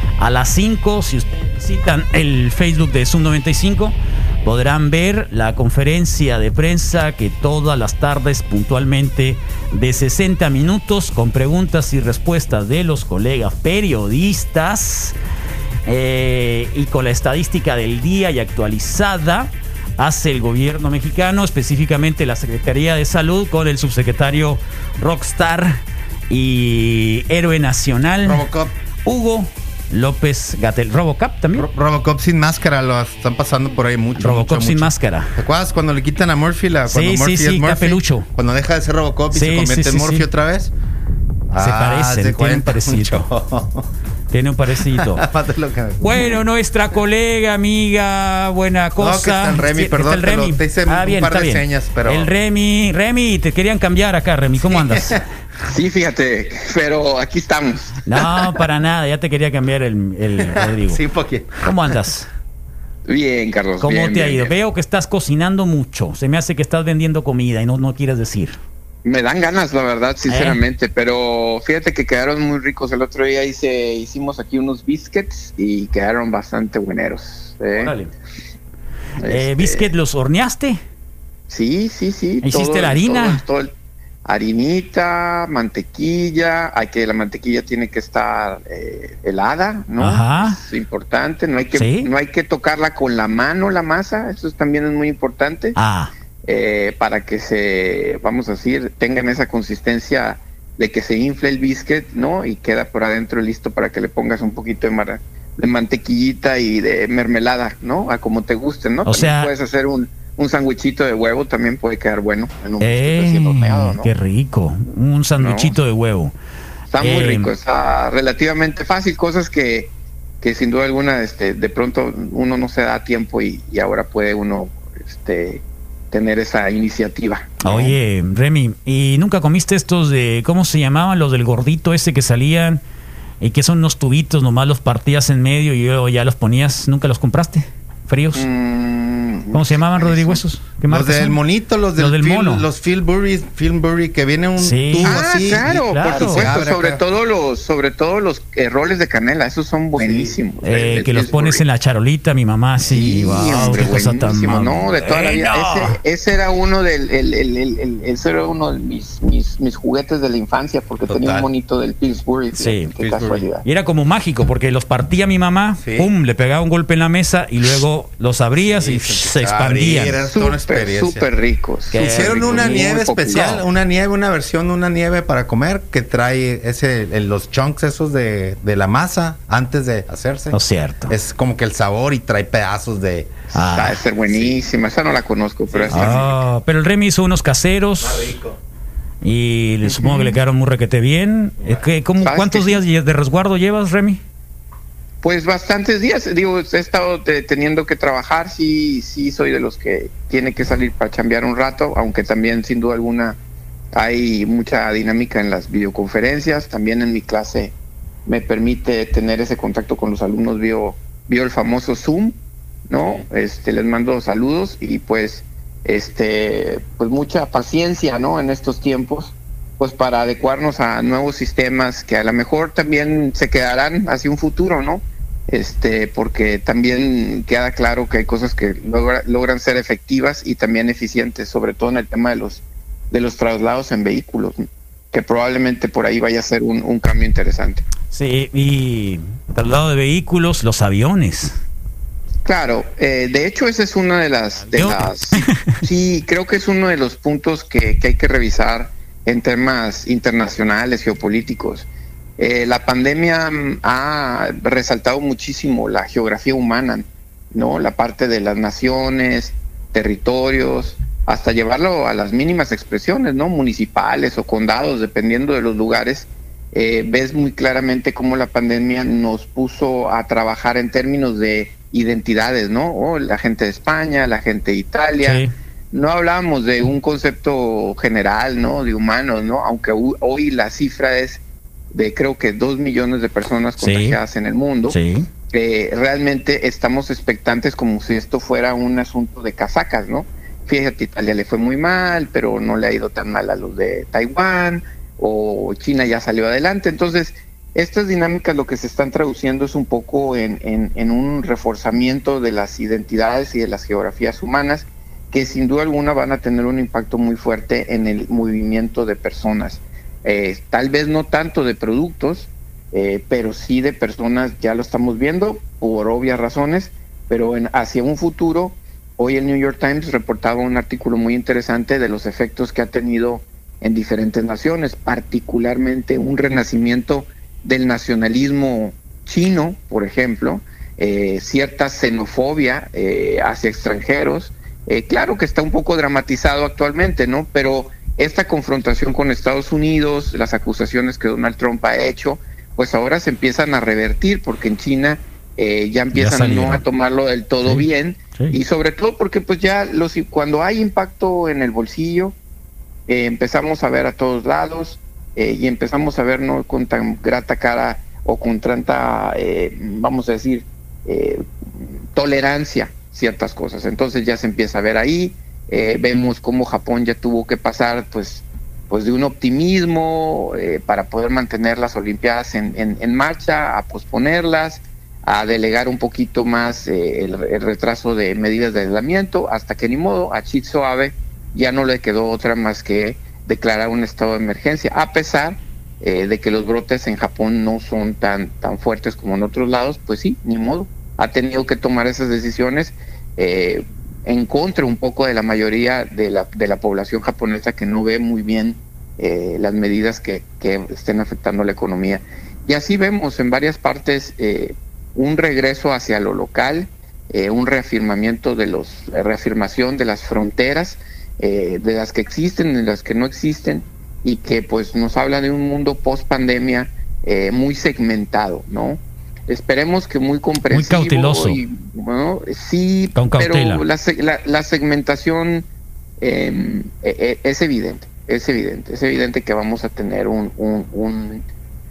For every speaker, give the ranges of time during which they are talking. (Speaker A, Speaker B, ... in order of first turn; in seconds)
Speaker A: 0.2-15.1, 15.8-25.8, 26.3-28.5, 29.0-31.7, 34.1-35.3, 36.9-38.3, 39.3-40.2, 41.6-43.3, 44.3-45.2, 46.0-55.3, 58.0-61.0, 61.6-62.3, 63.8-68.6, 70.2-70.6, 77.8-78.1, 79.2-80.8, 82.4-83.4, 90.0-90.6, 91.7-92.1, 95.7-96.1, 109.0-109.5, 112.8-116.3, 117.0-117.5, 127.6-132.8, 133.4-138.5, 139.5-141.4, 142.0-142.7, 144.6-146.6, 150.6-156.0, 162.5-170.2, 171.9-173.6, 180.5-181.2, 183.5-184.1, 185.9-188.3, 189.2-194.2, 238.1-241.6, 244.7-245.8, 275.2-275.5, 283.8-284.2, 284.9-285.3, 346.1-346.8, 347.6-348.6, 420.7-421.6, 423.1-423.8
Speaker B: 28.2-28.7, 31.5-40.7, 41.5-43.9, 44.9-46.4, 49.0-52.3, 54.6-55.2, 60.4-62.0, 140.9-147.0, 149.9-150.3, 152.9-154.0, 161.1-161.5, 163.0-163.4, 165.8-166.1, 168.6-171.2, 171.9-183.5, 185.7-186.4, 188.0-188.6
Speaker C: 55.7-58.2, 63.0-64.5, 69.0-77.9, 79.2-79.9, 81.5-83.7, 84.2-95.8, 96.4-114.1, 115.4-115.8, 116.9-127.9, 138.3-140.4, 145.0-151.6, 152.8-163.6, 170.2-173.6, 183.6-186.4, 189.8-190.4, 192.2-192.8, 195.2-203.4, 203.9-207.7, 208.3-212.4, 212.9-237.8, 242.4-251.9, 252.4-281.4, 281.9-285.0, 285.5-352.3, 353.1-425.6, 426.2-431.4